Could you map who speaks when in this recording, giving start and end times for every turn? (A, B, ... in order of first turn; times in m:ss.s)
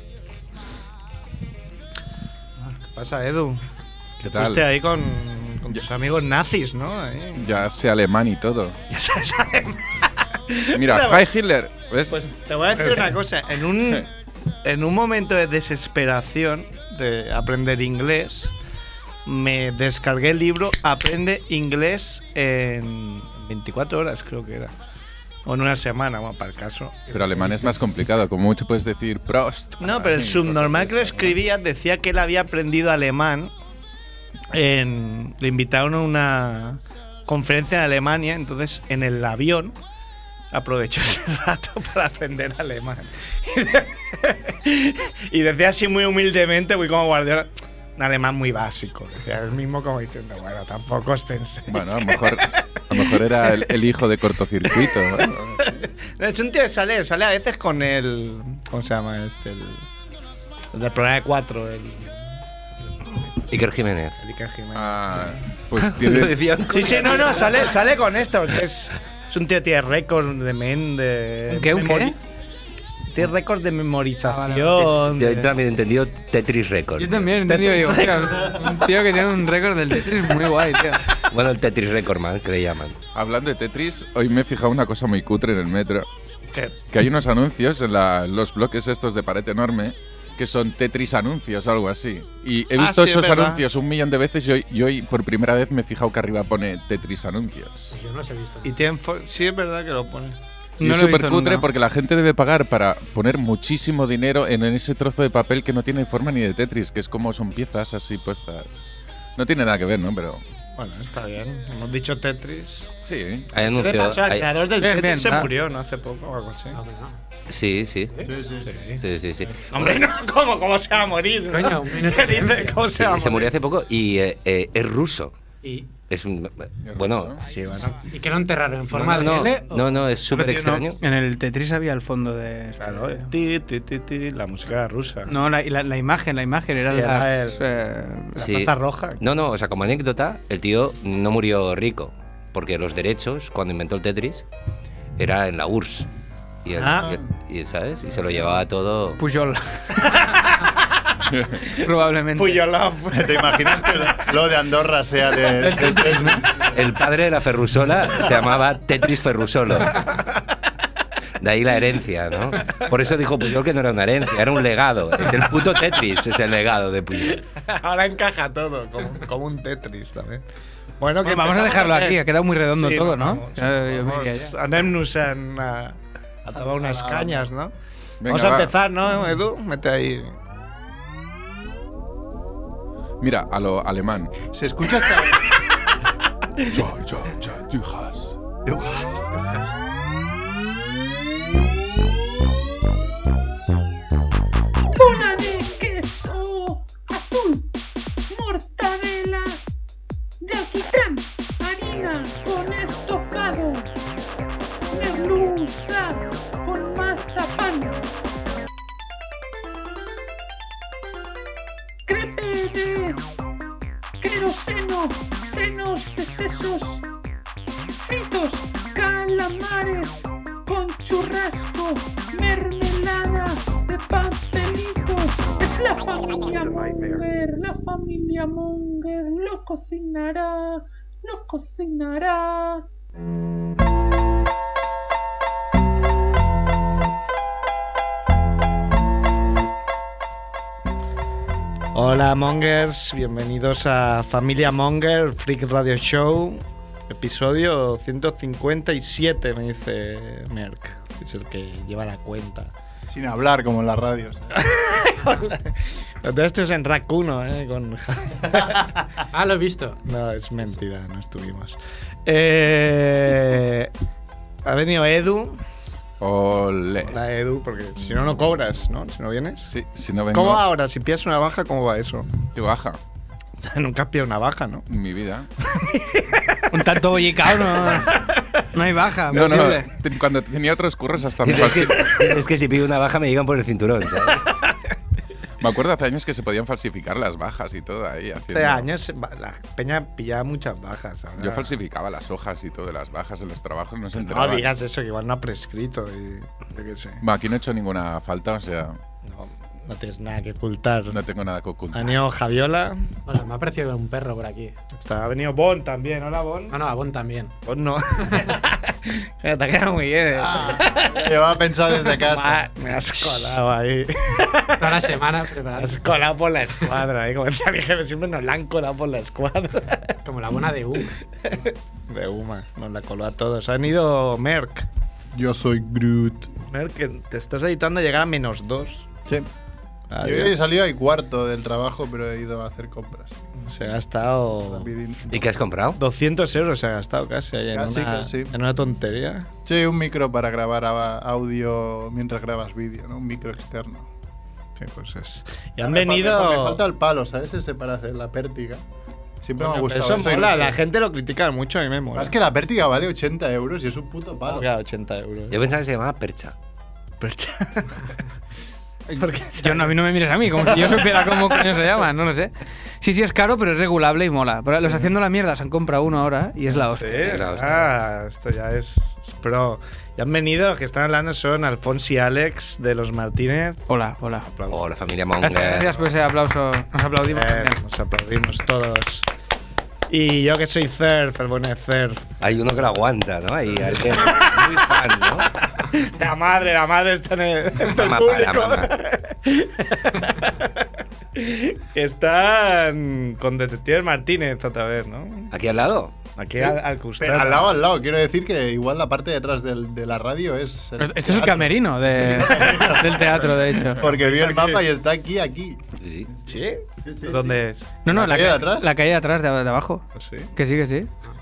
0:02.9-0:03.6 A
0:04.2-0:04.6 B
0:04.3-0:07.6 A
0:07.4-0:08.8 B
0:08.9-0:11.2 A
0:10.7-0:12.2 B
0:12.1-0:14.1 A
0:12.8-0:13.1 B
0:14.6-0:18.5 A
0:19.2-0:24.7 A
0:25.4-0:27.8 A
0:27.1-0:31.4 B
0:29.8-0:33.5 A
0:34.5-0:39.8 A
0:40.5-0:53.7 A
0:51.7-0:55.6 B
0:54.7-0:59.8 A
1:00.7-1:02.2 A
1:03.5-1:04.2 C
1:04.2-1:05.3 A
1:04.7-1:06.4 B
1:05.8-1:07.7 C
1:06.7-1:12.2 A
1:11.5-1:12.2 D
1:13.0-1:15.5 A
1:14.2-1:14.9 D
1:15.0-1:17.5 C
1:17.0-1:21.0 D
1:17.5-1:18.6 A
1:21.3-1:23.0 C
1:23.1-1:26.1 B
1:26.9-1:38.0 B
1:32.8-1:33.6 A
1:37.9-1:38.7 E
1:38.6-1:40.4 A
1:40.8-1:41.7 D
1:40.8-1:48.7 B
1:49.4-1:50.4 B
1:50.8-1:52.9 A
1:53.0-1:53.5 B
1:53.5-1:54.5 C
1:53.6-1:56.8 A
1:54.8-1:55.5 D
1:56.7-1:57.2 E
1:57.5-1:58.1 C
1:58.2-1:58.8 F
1:58.6-1:59.0 A
1:59.0-1:59.5 C
1:59.7-2:03.5 A
2:01.5-2:02.8 E
2:02.9-2:05.3 C
2:05.6-2:05.9 E
2:06.1-2:07.4 C
2:06.8-2:07.4 B
2:07.4-2:08.0 A
2:08.1-2:09.7 E
2:08.9-2:11.0 C
2:10.3-2:10.8 A
2:10.4-2:13.3 D
2:12.8-2:15.3 A
2:15.2-2:18.4 D
2:16.8-2:17.6 A
2:18.3-2:19.2 A
2:18.4-2:24.4 C
2:25.2-2:26.1 C
2:26.6-2:29.2 C
2:26.7-2:27.2 A
2:29.2-2:30.2 D
2:30.0-2:30.8 A
2:31.7-2:32.6 D
2:32.3-2:34.0 A
2:33.1-2:36.5 F
2:35.6-2:36.4 D
2:36.7-2:40.0 C
2:41.4-2:47.4 C
2:47.6-2:50.4 A
2:51.0-2:57.7 A
2:51.2-2:54.5 D
2:56.6-2:57.5 F
2:58.2-2:58.7 B
2:58.2-3:00.4 A
3:03.2-3:04.3 B
3:04.5-3:05.5 F
3:06.6-3:08.4 B
3:08.6-3:09.3 F
3:09.3-3:09.8 E
3:14.9-3:17.7 G
3:18.3-3:19.6 G
3:20.4-3:23.9 G
3:24.9-3:28.1 G
3:32.1-3:33.2 G
3:34.2-3:37.0 G
3:38.0-3:52.8 G
4:01.9-4:12.7 A
4:13.1-4:14.6 F
4:14.5-4:18.8 A
4:19.3-4:20.0 E
4:20.0-4:23.9 A
4:24.6-4:25.6 A
4:26.2-4:27.1 B
4:27.1-4:29.7 A
4:29.7-4:30.6 B
4:30.3-4:32.3 A
4:32.5-4:33.0 B
4:33.6-4:34.8 A
4:34.9-4:35.5 B
4:35.7-4:38.3 A
4:36.7-4:39.9 D
4:39.3-4:42.5 B
4:41.4-4:44.4 C
4:45.6-4:48.9 B
4:48.5-4:51.8 A
4:51.4-4:54.7 B
4:54.3-4:57.2 A
4:57.2-4:59.0 B
4:59.2-5:01.2 A
5:01.1-5:02.2 B
5:01.9-5:03.1 A
5:03.2-5:04.7 E
5:04.9-5:06.8 A
5:06.7-5:07.5 E
5:07.6-5:11.3 A
5:10.4-5:12.7 F
5:11.9-5:15.2 A
5:14.8-5:16.0 E
5:15.7-5:20.2 A
5:20.2-5:21.2 E
5:21.4-5:24.9 A
5:25.3-5:26.5 F
5:26.6-5:29.1 A
5:30.1-5:30.5 A
5:30.2-5:33.5 F
5:33.6-5:34.9 A
5:34.6-5:35.4 F
5:35.3-5:36.0 C
5:36.0-5:39.5 A
5:37.7-5:38.5 F
5:39.6-5:44.1 F
5:44.8-5:46.8 A
5:45.8-5:48.8 F
5:49.4-5:50.8 F
5:49.6-5:52.3 A
5:52.1-5:54.7 F
5:54.5-5:55.6 A
5:55.5-5:56.5 C
5:57.2-5:58.2 A
5:59.1-6:00.0 A
5:59.6-6:07.3 D
6:00.5-6:02.0 A
6:04.8-6:05.1 A
6:06.7-6:13.8 A
6:07.2-6:07.9 C
6:13.9-6:14.5 D
6:14.5-6:14.8 A
6:14.7-6:16.0 C
6:15.4-6:17.8 D
6:17.3-6:19.3 A
6:20.1-6:22.3 A
6:22.4-6:25.5 C
6:24.2-6:24.5 A
6:25.7-6:35.5 A
6:27.8-6:28.9 C
6:35.5-6:36.1 C
6:36.4-6:37.8 A
6:36.6-6:46.4 F
6:41.0-6:44.0 D
6:42.3-6:43.0 A
6:44.0-6:44.8 A
6:46.0-6:46.3 C
6:46.4-6:48.0 A
6:47.0-6:48.9 F
6:48.0-6:51.1 D
6:50.1-6:50.5 A